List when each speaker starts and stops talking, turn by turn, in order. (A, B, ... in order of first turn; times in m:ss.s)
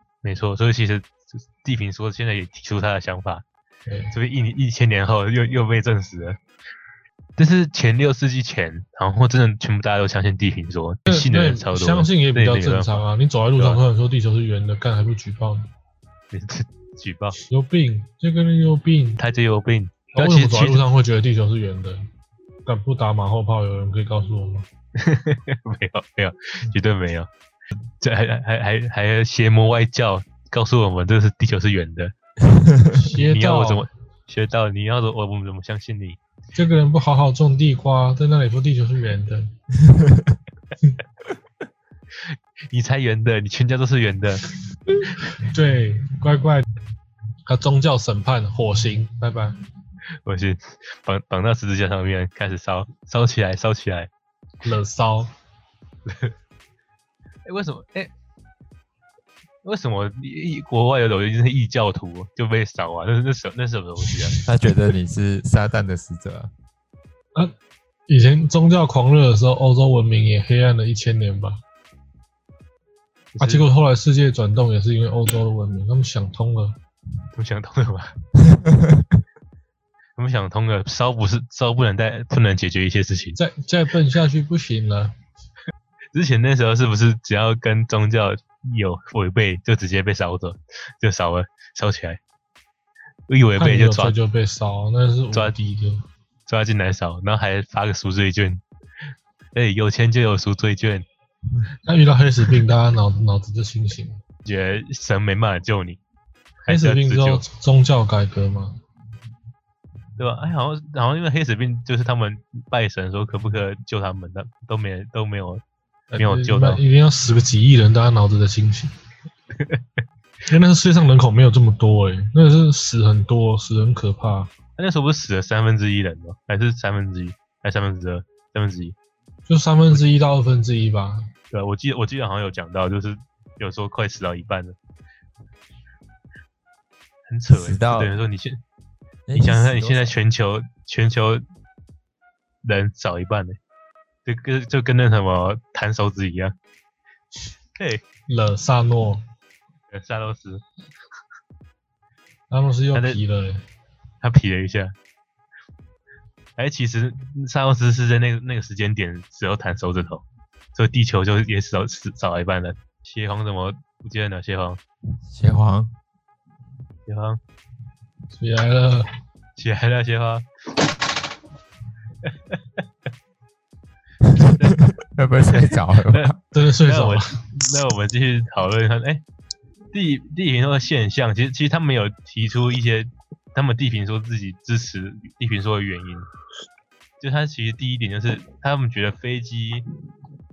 0:00.2-0:03.4 A
0:03.9-0:04.1 B
0:04.1-0:06.4 A
0:07.4-0:13.0 A
0:11.1-0:15.7 B
0:16.3-0:17.4 A
0:17.5-0:19.2 B
0:19.2-0:20.8 A
0:20.1-0:22.0 B
0:22.6-0:24.6 B
0:25.0-0:27.3 A
0:28.0-0:32.1 A
0:32.4-0:33.0 C
0:32.9-0:33.9 B
0:33.1-0:36.2 A
0:36.5-0:39.5 B
0:39.8-0:40.4 C
0:42.2-0:44.4 A
0:45.2-0:46.6 B
0:47.4-0:49.6 B
0:50.2-0:54.1 A
0:54.6-0:55.3 B
0:56.1-0:56.3 A
0:57.4-0:58.1 A
0:59.6-1:04.4 A
1:04.5-1:06.5 C
1:08.1-1:11.6 B
1:13.3-1:13.6 A
1:13.4-1:16.8 B
1:17.3-1:18.1 A
1:18.4-1:19.2 C
1:20.2-1:23.4 A
1:23.4-1:25.1 B
1:26.1-1:32.2 A
1:33.3-1:34.2 A
1:33.6-1:36.0 B
1:36.5-1:38.6 A
1:39.5-1:41.0 A
1:41.8-1:44.2 B
1:44.4-1:46.0 A
1:46.6-1:47.4 A
1:46.7-1:48.8 B
1:50.2-1:55.6 A
1:56.1-1:58.9 B
1:56.2-1:56.8 A
2:00.5-2:04.5 B
2:04.8-2:08.9 A
2:09.5-2:11.3 B
2:11.5-2:14.8 A
2:17.3-2:18.6 A
2:17.5-2:18.1 C
2:19.3-2:20.1 C
2:19.3-2:21.4 A
2:22.6-2:23.6 A
2:24.2-2:26.5 A
2:27.8-2:28.0 A
2:28.3-2:29.2 B
2:29.9-2:30.6 A
2:32.5-2:33.6 B
2:32.9-2:33.2 A
2:34.2-2:34.9 A
2:36.6-2:44.8 A
2:45.3-2:45.9 C
2:47.1-2:47.4 A
2:48.3-2:49.1 B
2:49.6-2:50.4 A
2:54.2-2:56.4 C
2:54.6-2:54.8 A
2:55.5-2:56.3 A
2:56.5-2:57.2 B
2:56.8-2:59.2 A
2:59.9-3:06.2 A
3:07.2-3:09.8 A